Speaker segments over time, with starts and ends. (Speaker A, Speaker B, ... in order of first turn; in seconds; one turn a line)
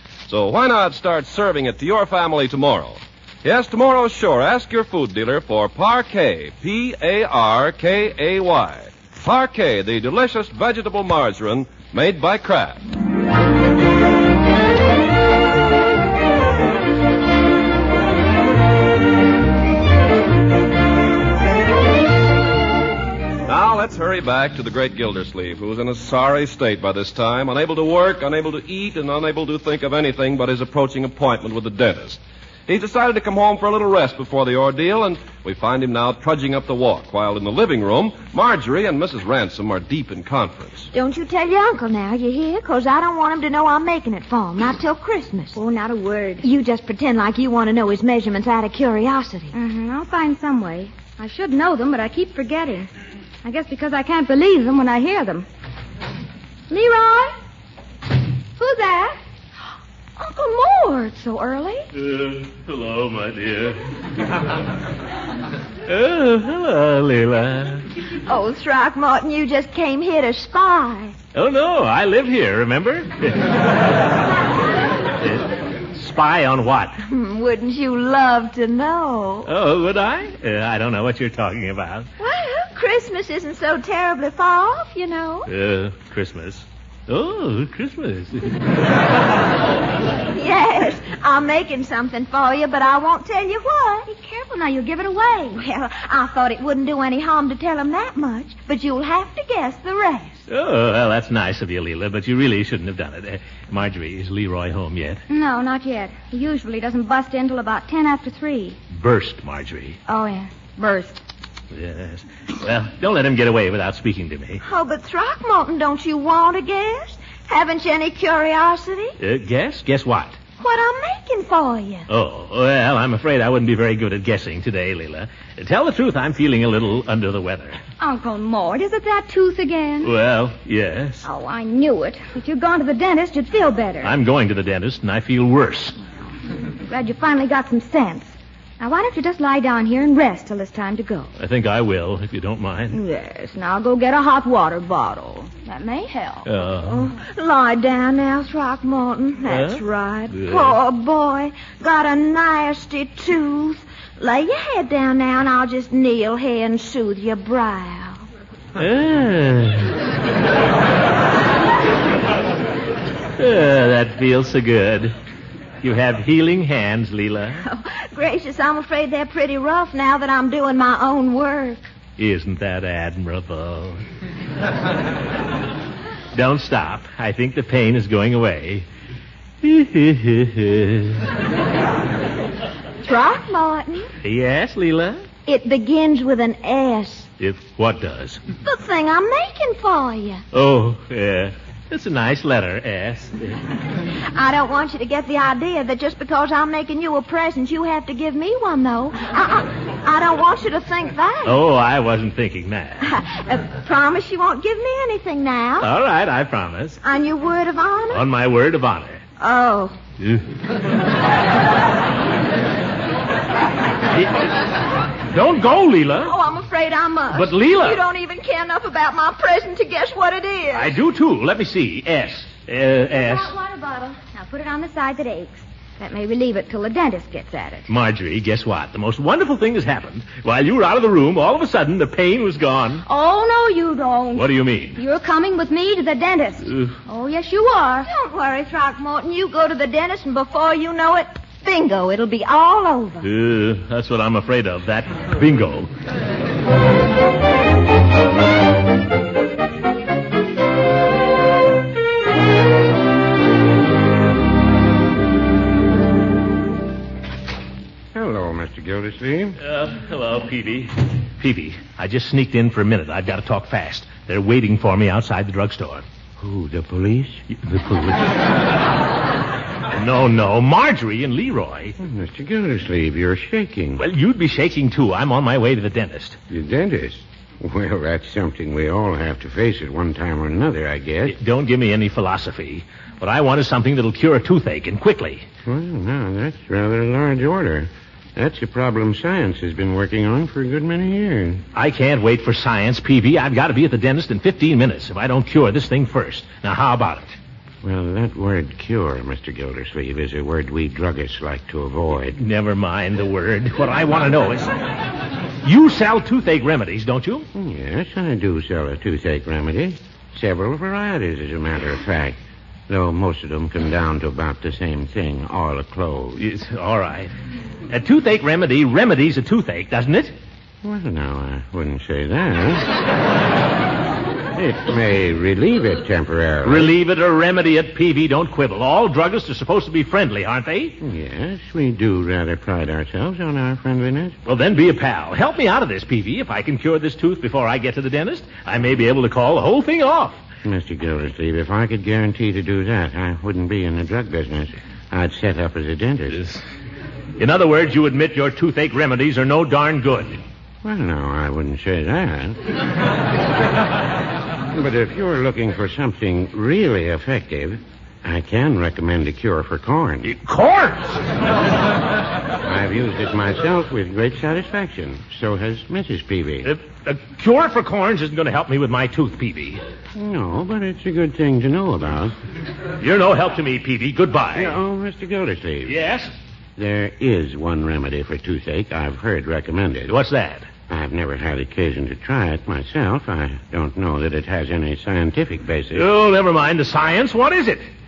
Speaker A: 0.3-12.8
Speaker A: 23.5-40.9
Speaker B: 40.9-45.5
Speaker C: 45.5-46.5
Speaker B: 46.4-49.5
Speaker C: 49.5-52.9
Speaker C: 53.4-55.5
Speaker C: 56.7-57.4
Speaker C: 58.6-59.2
Speaker C: 60.2-61.8
Speaker D: 61.9-63.8
Speaker D: 65.9-67.9
Speaker B: 68.3-71.2
Speaker D: 71.3-73.6
Speaker D: 75.2-77.0
Speaker B: 77.0-79.5
Speaker D: 79.5-82.1
Speaker B: 82.2-85.5
Speaker D: 85.5-88.6
Speaker B: 90.3-94.1
Speaker C: 94.1-95.5
Speaker B: 95.5-100.4
Speaker D: 100.5-105.2
Speaker C: 105.3-108.8
Speaker D: 108.9-110.0
Speaker C: 110.1-111.2
Speaker D: 111.7-114.6
Speaker B: 114.6-119.2
Speaker D: 119.2-120.4
Speaker B: 120.6-122.1
Speaker D: 122.1-127.8
Speaker C: 128.0-130.1
Speaker D: 130.0-131.3
Speaker C: 131.2-134.1
Speaker D: 134.0-136.0
Speaker C: 136.8-141.3
Speaker D: 141.4-143.0
Speaker C: 142.9-146.5
Speaker D: 146.4-147.1
Speaker B: 146.8-158.2
Speaker D: 149.5-150.8
Speaker D: 158.8-159.9
Speaker D: 163.4-165.2
Speaker D: 165.8-167.6
Speaker B: 167.6-171.9
Speaker D: 172.2-174.0
Speaker D: 176.3-178.9
Speaker D: 179.6-181.3
Speaker B: 183.0-184.1
Speaker D: 184.2-185.2
Speaker B: 185.5-187.3
Speaker D: 187.4-188.4
Speaker B: 188.6-190.4
Speaker D: 190.5-193.6
Speaker B: 194.3-201.6
Speaker D: 201.4-203.1
Speaker B: 203.0-205.9
Speaker D: 205.8-207.0
Speaker B: 207.0-208.2
Speaker D: 208.1-209.2
Speaker B: 209.4-210.0
Speaker D: 210.2-210.5
Speaker D: 214.2-214.4
Speaker D: 215.3-216.4
Speaker B: 216.2-221.0
Speaker D: 217.3-218.0
Speaker D: 220.7-223.5
Speaker C: 223.1-227.9
Speaker D: 227.9-233.1
Speaker C: 233.1-238.1
Speaker D: 234.3-235.0
Speaker D: 236.7-236.9
Speaker B: 238.1-243.2
Speaker D: 243.2-245.9
Speaker E: 258.1-259.6
Speaker D: 259.6-266.0
Speaker E: 266.4-267.6
Speaker D: 267.6-268.1
Speaker D: 269.9-271.9
Speaker E: 272.0-274.0
Speaker D: 274.0-276.4
Speaker E: 276.5-281.4
Speaker D: 281.3-285.5
Speaker E: 285.6-291.6
Speaker D: 291.8-297.4
Speaker E: 297.8-302.4
Speaker D: 302.3-304.7
Speaker D: 305.6-307.5
Speaker E: 307.5-316.4
Speaker D: 316.4-317.3
Speaker D: 317.9-320.4
Speaker E: 320.8-322.9
Speaker E: 324.5-326.9
Speaker D: 326.6-331.0
Speaker E: 331.0-334.4
Speaker D: 334.4-340.4
Speaker E: 340.6-346.5
Speaker D: 346.3-346.6
Speaker D: 347.4-350.4
Speaker E: 350.8-352.7
Speaker E: 354.7-360.3
Speaker D: 360.2-361.2
Speaker E: 362.6-366.8
Speaker D: 366.6-369.8
Speaker E: 370.1-372.4
Speaker D: 373.0-374.8
Speaker E: 374.5-376.0
Speaker D: 375.9-376.3
Speaker E: 376.8-380.1
Speaker D: 380.1-380.7
Speaker E: 380.9-386.1
Speaker D: 385.9-387.9